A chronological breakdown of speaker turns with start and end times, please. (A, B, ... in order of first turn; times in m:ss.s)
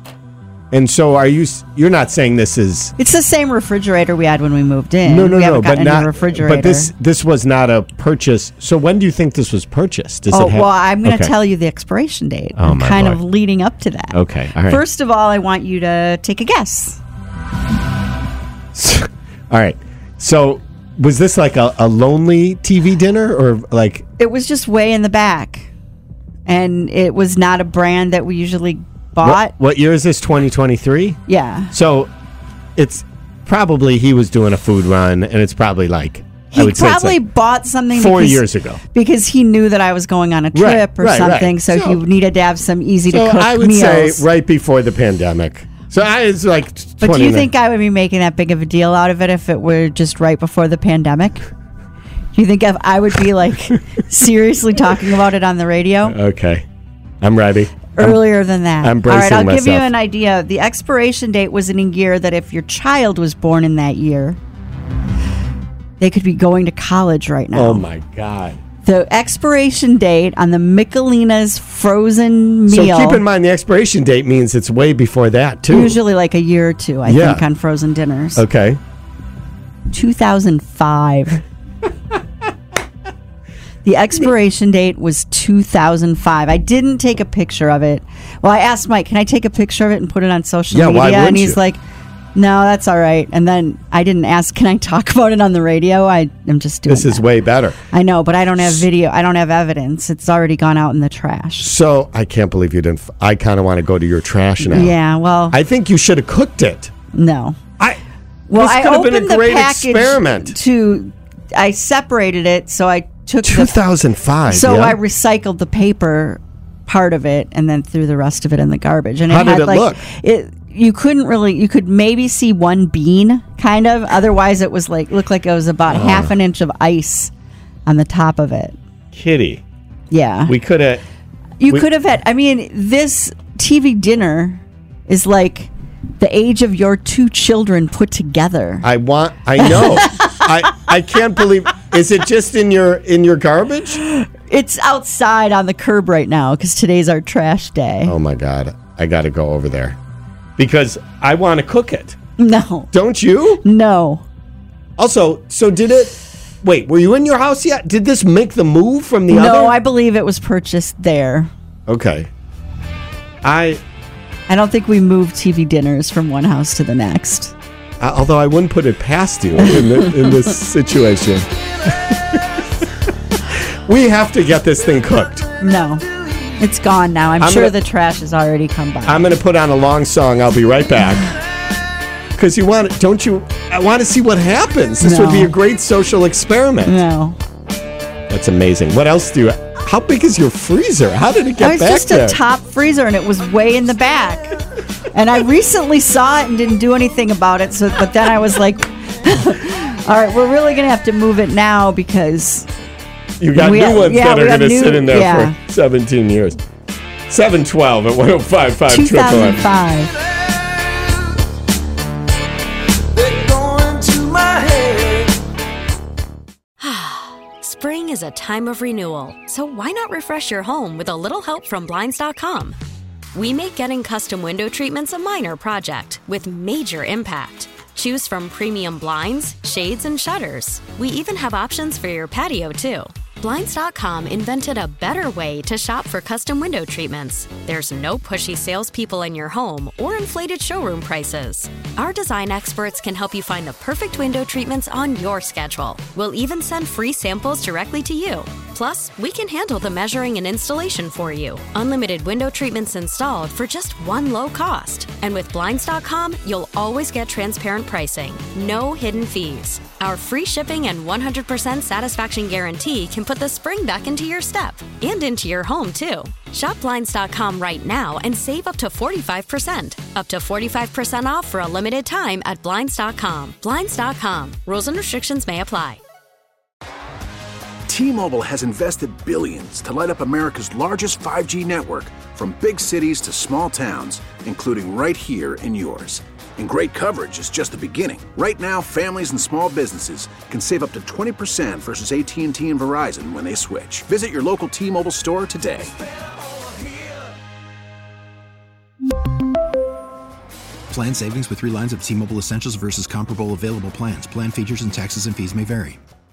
0:00.7-0:02.9 A
0:03.0-0:06.9 B
0:05.0-0:11.3 A
0:10.3-0:17.0 B
0:12.6-0:13.2 A
0:14.1-0:14.8 A
0:18.7-0:24.0 A
0:24.2-0:25.7 B
0:26.4-0:29.5 B
0:29.2-0:31.2 A
0:31.3-0:31.7 B
0:31.7-0:32.1 A
0:32.8-0:37.2 A
0:36.5-0:44.2 B
0:37.9-0:38.8 A
0:40.5-0:42.0 A
0:43.1-0:47.5 A
0:47.0-0:51.4 B
0:52.3-0:56.2 B
0:56.0-0:56.6 A
0:57.2-0:58.2 A
0:57.9-1:04.4 B
0:58.8-0:59.9 A
1:06.0-1:07.9 B
1:07.5-1:08.6 A
1:08.8-1:13.2 B
1:12.7-1:16.0 A
1:15.7-1:18.4 B
1:17.0-1:17.4 A
1:18.4-1:18.8 A
1:19.9-1:21.4 B
1:23.8-1:31.8 B
1:30.7-1:31.6 A
1:32.3-1:37.3 B
1:36.9-1:37.8 A
1:37.9-1:41.7 B
1:38.6-1:38.8 A
1:41.6-1:45.0 A
1:44.6-1:45.6 B
1:45.5-1:46.9 A
1:47.1-1:47.6 B
1:48.5-1:53.8 B
1:48.5-1:50.6 A
1:53.4-1:55.0 A
1:54.5-2:07.3 B
1:59.3-2:00.0 A
2:05.9-2:06.3 A
2:07.8-2:08.8 B
2:09.1-2:09.6 A
2:10.1-2:10.6 B
2:10.5-2:11.0 A
2:11.6-2:18.8 B
2:18.8-2:24.0 A
2:19.6-2:20.4 B
2:24.1-2:28.1 B
2:28.0-2:30.0 A
2:30.6-2:32.2 A
2:32.4-2:32.9 B
2:32.9-2:33.6 A
2:33.6-2:34.2 B
2:35.0-2:39.8 A
2:39.3-2:41.5 B
2:41.9-2:42.3 A
2:43.4-2:43.8 A
2:44.5-2:47.5 B
2:48.0-2:52.4 A
2:49.6-2:50.2 B
2:53.7-2:55.5 A
2:55.6-2:56.0 B
2:56.6-2:59.3 B
2:57.4-2:57.7 A
2:59.0-3:01.3 A
3:02.3-3:07.0 A
3:05.0-3:05.5 B
3:06.8-3:07.4 B
3:08.3-3:12.4 A
3:11.6-3:14.6 B
3:15.1-3:22.7 B
3:23.4-3:26.6 A
3:23.6-3:25.5 B
3:27.3-3:29.6 A
3:28.9-3:30.1 B
3:33.2-3:35.2 C
3:36.8-3:42.8 D
3:43.3-4:36.0 D
4:37.9-4:55.9 E
5:00.9-5:06.0 C